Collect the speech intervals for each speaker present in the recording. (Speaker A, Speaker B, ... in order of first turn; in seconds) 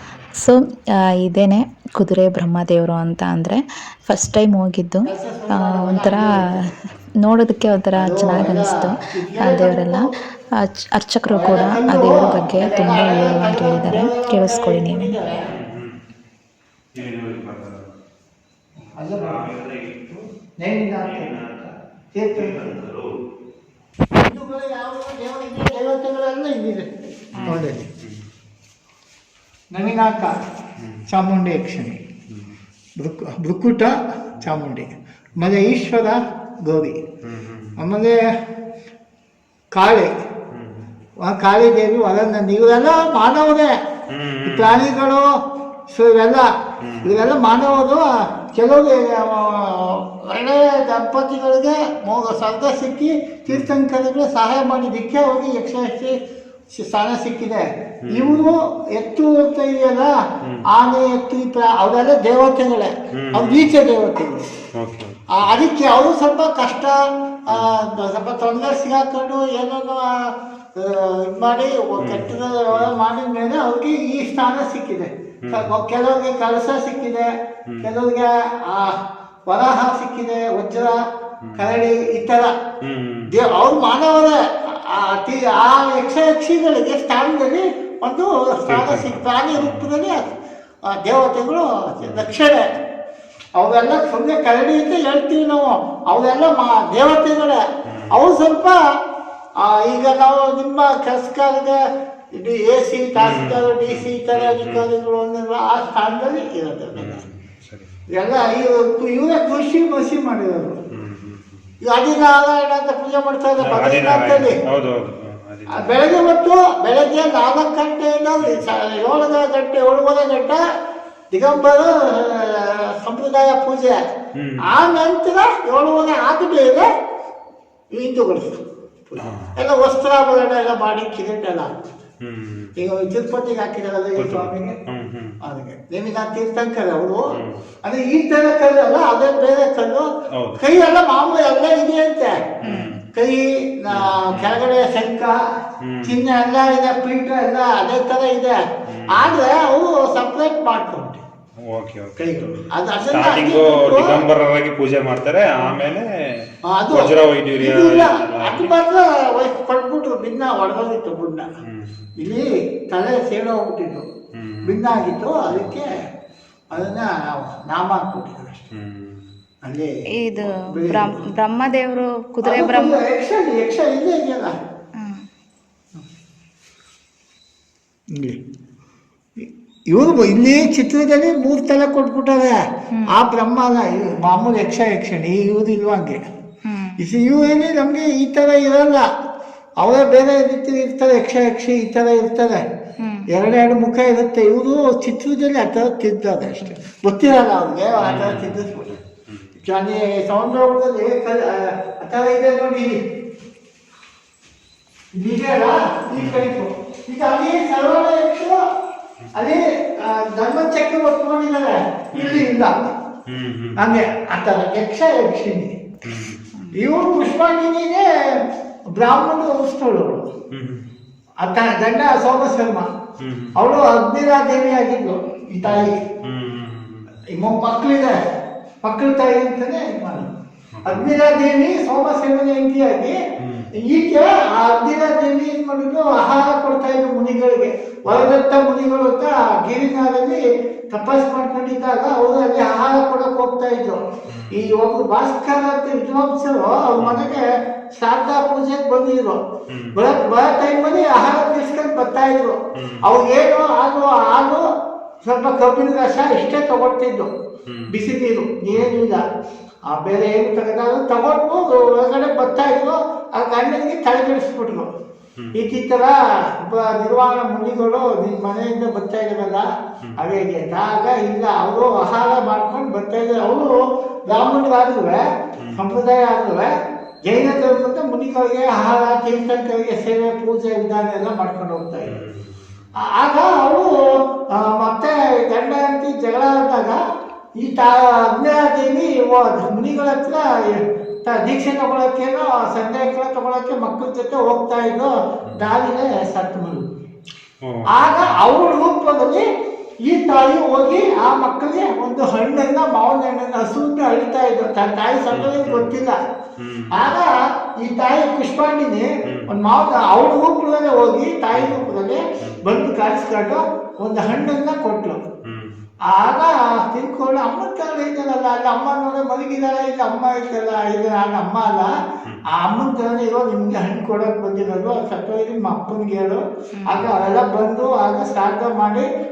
Speaker A: 1.2-6.2, 7.2-10.1, 10.6-15.1, 27.4-27.6, 142.6-143.0, 170.2-173.0, 175.0-175.3, 186.7-187.0, 193.0-193.3, 326.8-327.0
Speaker B: 5.1-6.2, 8.0-10.1, 11.3-15.5, 19.0-19.4, 20.6-21.3, 22.1-22.7, 24.2-26.9, 27.4-27.9, 29.7-30.3, 31.1-32.0, 33.0-37.0, 37.8-38.2, 39.7-40.1, 41.2-43.7, 44.5-45.3, 45.9-46.5, 47.0-56.1, 56.7-60.1, 60.7-64.5, 65.4-67.0, 67.5-70.1, 70.8-77.3, 77.8-81.0, 81.6-82.5, 83.3-90.3, 90.9-92.6, 93.5-97.6, 98.2-98.8, 99.6-101.8, 102.3-107.1, 108.1-110.8, 111.8-114.6, 115.8-120.6, 121.3-124.0, 124.7-126.9, 127.9-128.6, 129.1-131.7, 132.8-134.8, 135.4-137.3, 137.8-140.1, 140.6-142.5, 143.1-145.4, 146.1-148.6, 149.1-151.2, 152.2-154.2, 156.7-161.5, 162.2-164.1, 164.7-165.9, 166.7-168.6, 169.7-171.2, 172.4-174.5, 179.4-182.6, 183.1-186.2, 187.0-189.1, 189.8-192.7, 193.3-198.9, 199.7-203.0, 205.1-208.6, 209.3-212.9, 213.8-215.7, 216.8-218.1, 218.9-220.3, 221.4-222.9, 223.6-225.9, 227.3-228.2, 228.8-230.3, 230.9-233.2, 233.8-244.0, 244.6-249.4, 249.9-254.6, 255.2-257.3, 257.9-259.2, 259.9-264.9, 265.6-269.7, 270.2-276.7, 277.2-282.2, 283.1-287.0, 287.6-296.9, 297.9-299.4, 300.1-306.2, 307.0-315.2, 316.1-321.9, 322.5-329.1
Speaker C: 15.5-16.0, 16.9-17.9, 18.8-20.2, 21.0-21.8, 22.3-23.1, 27.4-28.2, 30.8-31.1, 32.3-32.5, 37.2-37.8, 40.5-40.8, 44.1-44.9, 46.8-47.3, 53.5-53.8, 58.0-58.5, 63.2-63.7, 64.8-65.6, 67.5-67.8, 72.0-73.0, 75.4-75.8, 77.7-78.0, 81.4-81.8, 82.8-83.3, 88.7-89.9, 92.0-92.4, 97.9-98.2, 103.2-104.9, 107.0-107.9, 111.0-111.7, 113.6-116.1, 118.4-118.7, 124.4-124.8, 129.2-129.6, 132.2-132.8, 134.2-135.4, 137.3-137.6, 140.3-140.7, 142.6-143.0, 143.9-144.7, 145.8-146.2, 148.9-149.4, 151.7-158.8, 164.4-165.8, 168.7-169.3, 198.0-199.6, 206.2-206.5, 212.1-212.5, 213.3-214.0, 216.0-216.4, 220.5-220.8, 223.2-223.6, 225.6-227.1, 230.8-231.2, 233.4-233.7, 238.1-238.4, 244.3-244.7, 247.0-247.3, 249.7-250.0, 252.8-253.2, 257.7-258.1, 258.7-259.0, 265.4-265.7, 270.0-270.3, 275.6-275.9, 282.0-282.6, 297.6-298.4, 305.3-305.9, 306.6-307.2, 309.3-309.6, 311.5-311.8, 315.5-315.8